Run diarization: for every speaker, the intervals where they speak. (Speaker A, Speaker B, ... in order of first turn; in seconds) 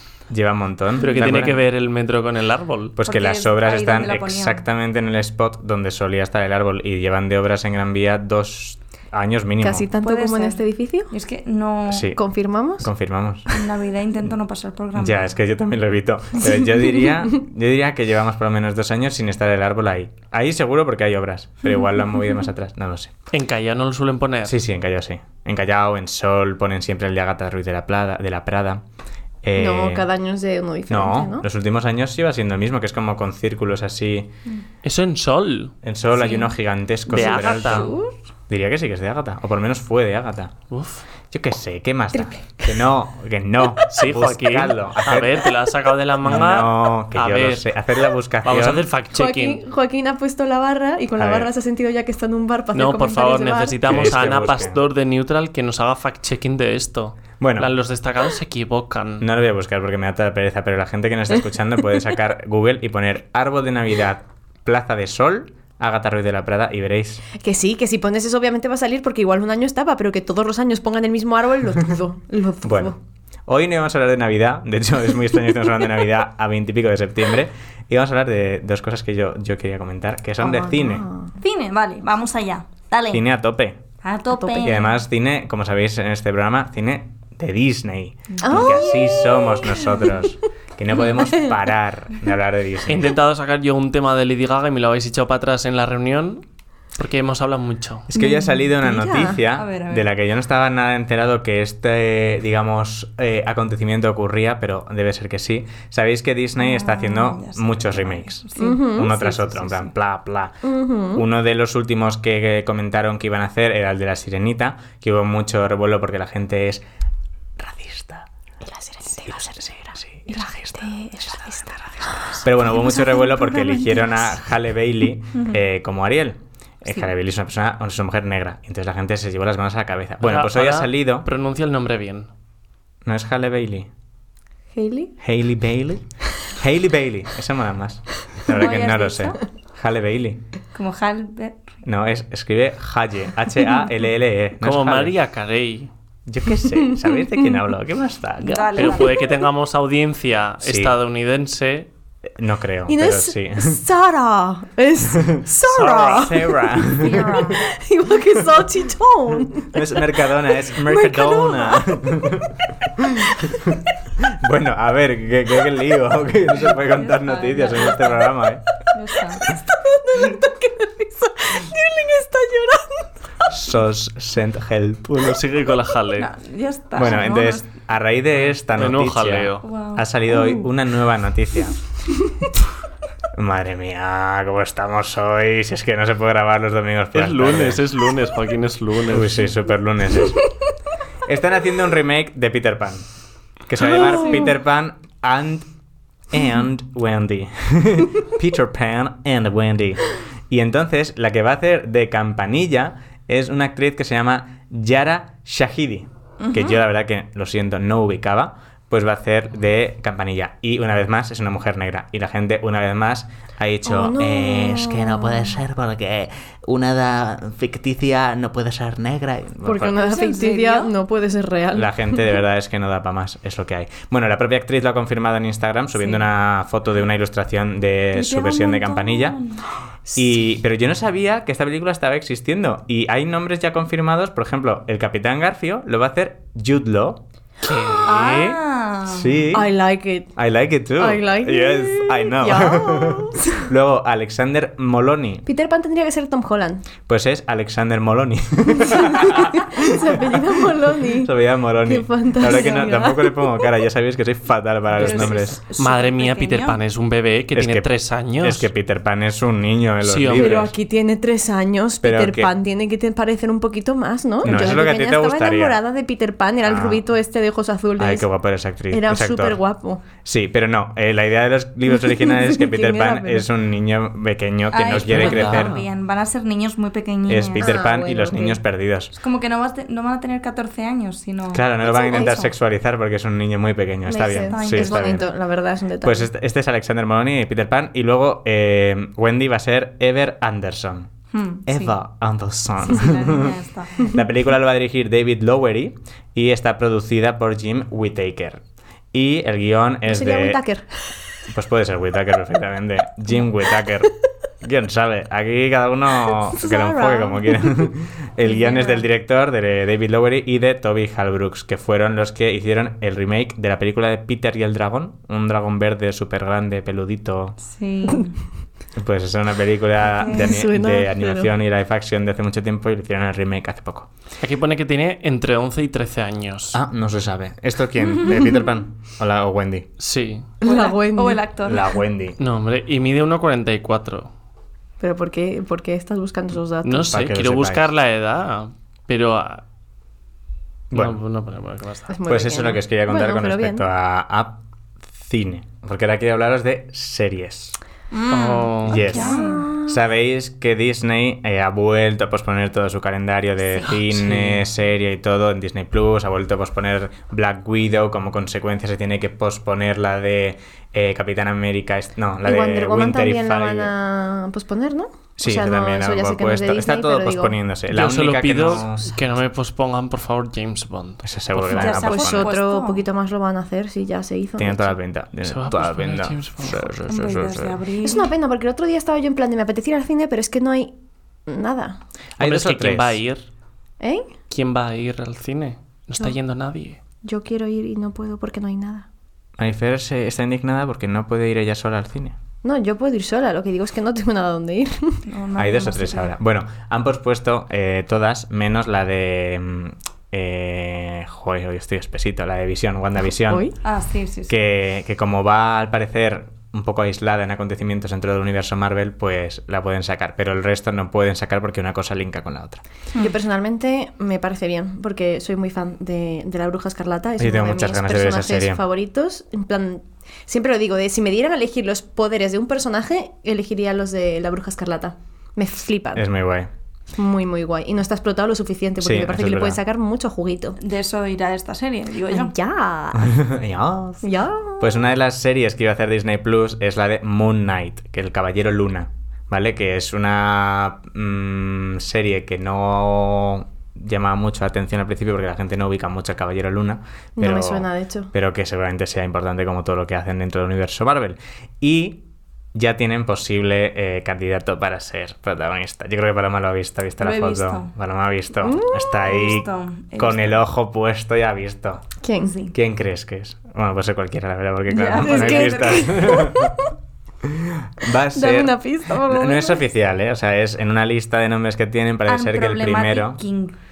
Speaker A: 0.3-1.6, 3.0-9.9, 11.9-12.2, 12.8-13.6, 15.0-23.1, 24.4-28.8, 29.4-30.1, 30.9-34.3, 35.8-38.0, 38.5-40.5, 41.3-45.6, 46.2-48.9, 51.2-51.5, 53.8-54.8, 57.4-57.7, 59.2-67.2, 72.6-72.9, 73.5-81.1, 83.1-83.8, 84.6-93.1, 98.1-110.6, 111.2-116.8, 117.6-118.3, 119.1-131.3, 133.1-133.9, 135.2-140.4, 141.8-145.2, 146.3-149.0, 150.6-150.9, 152.4-153.8, 155.2-157.5, 159.6-163.1, 164.3-168.6, 173.5-175.4, 176.9-181.8, 183.3-187.8, 189.1-190.4, 191.3-193.1, 193.7-195.7, 196.3-220.0, 221.7-229.4, 230.2-237.2, 239.1-239.7, 240.4-245.4, 247.1-255.6, 257.5-260.7, 262.0-262.5, 264.4-265.8, 266.6-267.0, 268.0-269.6, 270.2-275.8, 277.3-279.1, 281.5-285.3, 286.0-291.1, 291.7-300.6, 301.5-317.6, 319.0-324.1, 326.7-329.9, 331.6-332.4, 337.1-337.9, 340.9-341.2, 342.3-344.6, 345.2-347.8, 348.9-363.9, 365.4-369.1, 371.2-372.5, 374.6-377.8, 382.4-383.2, 389.6-392.4, 395.6-403.7, 404.5-412.8, 417.4-418.8, 426.1-426.7, 429.0-429.8, 433.1-434.2, 434.8-452.2, 452.7-462.0, 462.7-466.7, 467.4-473.4
Speaker B: 1.0-3.0, 23.3-24.6, 34.8-35.7, 37.1-37.9, 40.7-41.0, 43.9-47.7, 48.4-49.6, 52.7-59.3, 92.9-98.1, 130.2-132.3, 144.6-145.9, 148.8-151.9, 175.2-176.3, 178.8-179.7, 187.1-189.5, 237.6-238.6, 255.8-258.7, 260.0-260.7, 275.0-275.9, 324.4-326.8, 330.0-330.5, 332.4-334.3, 336.8-339.6, 340.9-342.1, 348.3-349.1, 353.9-354.6, 367.9-372.0, 375.4-376.9, 382.4-383.5, 384.5-387.0
Speaker C: 1.0-1.4, 3.0-4.6, 10.0-12.1, 13.5-15.3, 37.4-37.9, 81.4-83.2, 84.0-85.0, 88.3-88.9, 99.5-100.1, 106.6-109.9, 125.3-125.6, 138.5-139.4, 140.7-141.8, 148.4-149.4, 157.0-157.6, 166.9-168.3, 168.9-169.5, 176.2-177.7, 179.6-180.1, 206.4-206.8, 219.9-220.9, 228.1-229.6, 238.0-239.4, 252.5-252.8, 255.0-256.8, 274.7-277.8, 279.1-282.4, 284.5-285.3, 291.3-291.9, 292.8-294.1, 308.5-309.0, 317.6-318.4, 320.1-320.5, 328.2-328.5, 330.6-332.0, 348.1-349.7, 371.7-373.1, 377.1-378.3, 395.3-396.3, 403.8-404.6, 430.8-432.5, 457.2-457.9, 459.2-460.6, 462.4-462.8, 464.9-466.5, 472.3-473.8
Speaker D: 9.6-11.1, 12.2-12.9, 29.6-31.5, 37.3-38.1, 42.1-42.8, 49.1-54.3, 67.3-73.0, 80.4-81.3, 84.3-84.6, 88.4-90.3, 91.2-91.6, 98.1-99.4, 108.6-109.1, 110.6-111.2, 118.7-119.5, 120.3-124.4, 134.7-135.1, 146.9-147.6, 152.9-162.4, 163.2-163.7, 169.4-173.1, 193.9-194.4, 213.8-215.6, 219.6-222.4, 239.5-240.3, 241.0-243.7, 245.4-246.9, 248.8-253.7, 260.4-268.3, 268.9-270.0, 271.9-273.5, 277.6-278.6, 281.9-282.5, 284.1-286.3, 300.1-300.9, 306.5-307.9, 320.3-321.5, 330.6-331.4, 335.0-337.2, 342.1-343.9, 349.0-350.0, 362.4-367.6, 372.0-374.9, 378.0-380.9, 381.5-382.0, 384.0-384.3, 387.2-389.1, 392.6-395.2, 403.5-403.8, 413.2-426.2, 427.2-430.8, 432.3-433.4, 434.2-434.8, 447.4-448.3, 458.6-459.2, 462.2-462.5, 465.1-466.9, 468.3-469.8